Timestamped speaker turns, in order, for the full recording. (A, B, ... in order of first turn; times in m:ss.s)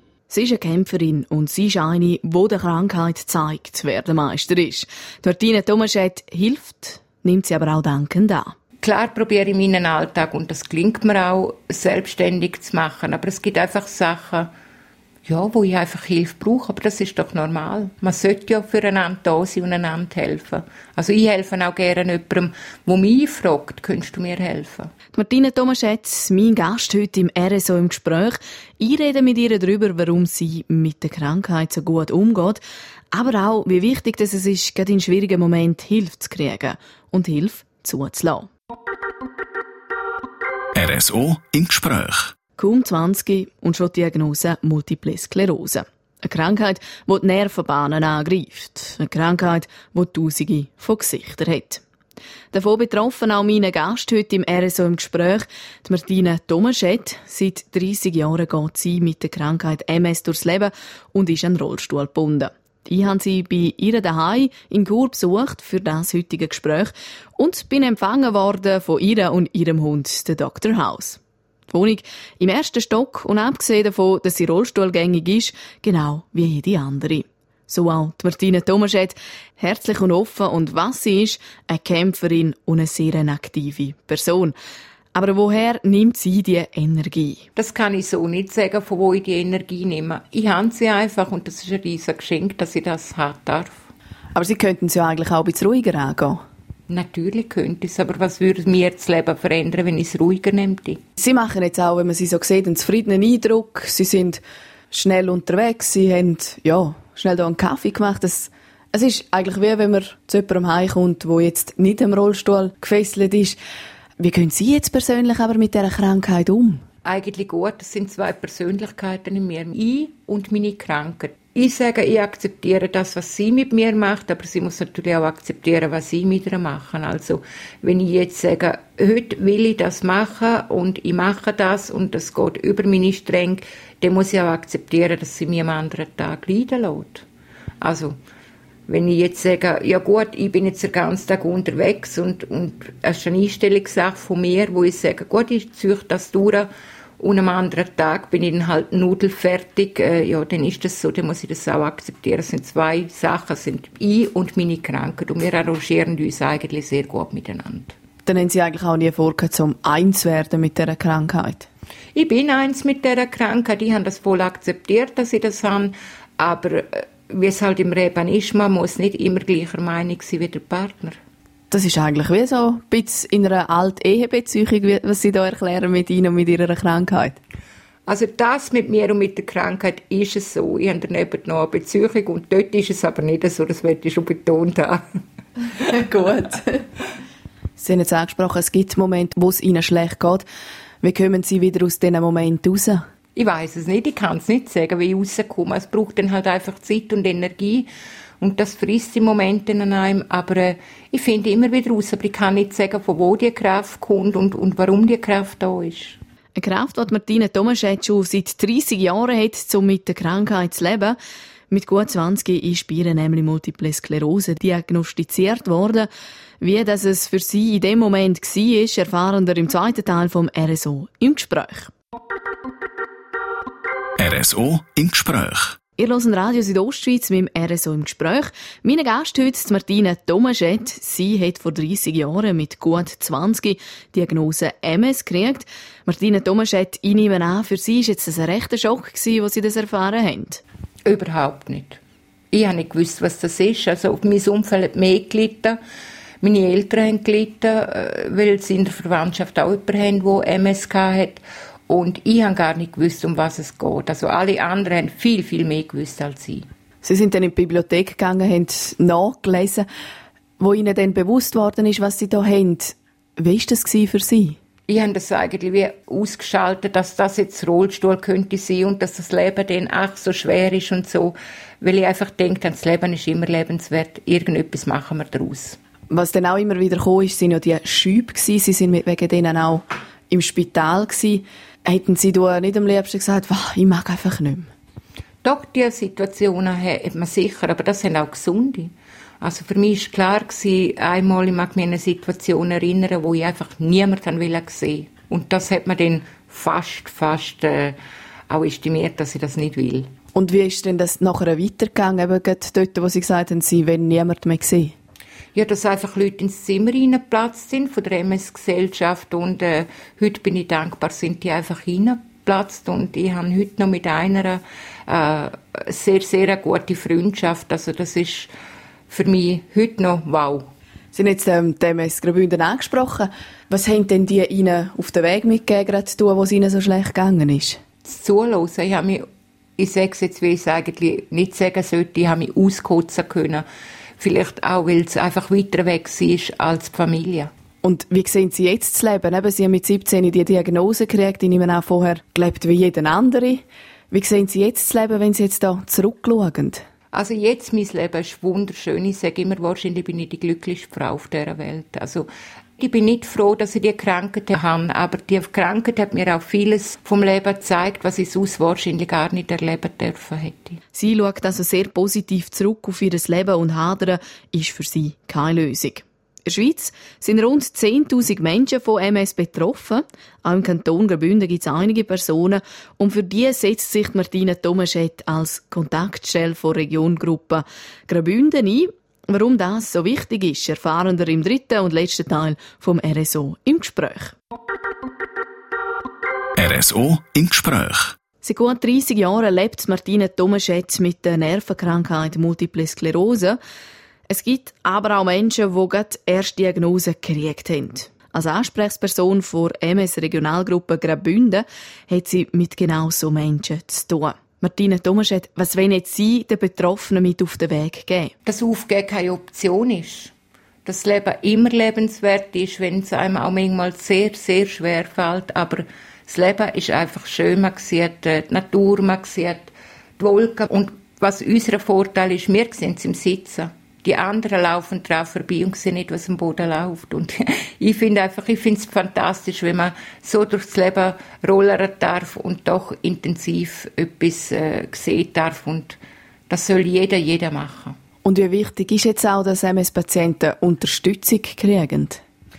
0:00.3-0:08.5 A
0:08.8-0:14.5 B
0:15.3-0:24.9 B
0:25.1-0:32.6 A
0:33.1-0:38.5 A
0:40.8-0:42.3 C
0:42.6-0:51.8 A
0:52.5-1:24.5 A
1:25.1-1:27.4 A
1:27.6-1:33.8 B
1:34.3-1:36.4 A
1:36.9-1:41.0 B
1:41.2-1:53.6 A
1:54.2-1:56.8 A
1:57.0-2:17.3 B
2:17.8-2:18.2 B
2:18.9-2:26.7 B
2:27.2-2:37.9 B
2:38.3-2:41.7 A
2:42.2-2:51.2 B
2:51.7-2:57.4 A
2:58.1-3:05.0 B
3:05.8-3:06.8 A
3:07.8-3:10.4 A
3:11.0-3:13.0 A
3:13.4-3:17.9 B
3:18.4-3:26.2 B
3:26.6-3:31.2 A
3:31.7-3:36.1 A
3:36.6-3:41.9 A
3:44.2-3:45.8 C
3:46.0-4:00.6 A
4:01.1-4:02.0 B
4:02.5-4:05.8 B
4:06.4-4:16.6 B
4:17.0-4:19.8 A
4:20.6-4:24.6 A
4:24.9-4:35.8 B
4:36.1-4:44.7 A
4:45.4-4:58.0 B
4:58.5-5:00.1 B
5:00.4-5:04.9 A
5:05.6-5:18.5 B
5:19.1-5:20.6 B
5:21.1-5:27.8 A
5:28.0-5:29.2 B
5:29.8-5:33.6 B
5:34.2-5:37.5 B
5:37.8-5:46.8 A
5:47.1-6:00.8 B
6:01.0-6:24.4 A
6:26.6-6:28.2 C
6:28.4-6:33.6 A
6:34.3-6:48.3 A
6:48.4-6:50.3 B
6:50.8-7:16.0 B
7:16.5-7:18.0 B
7:18.2-7:22.2 A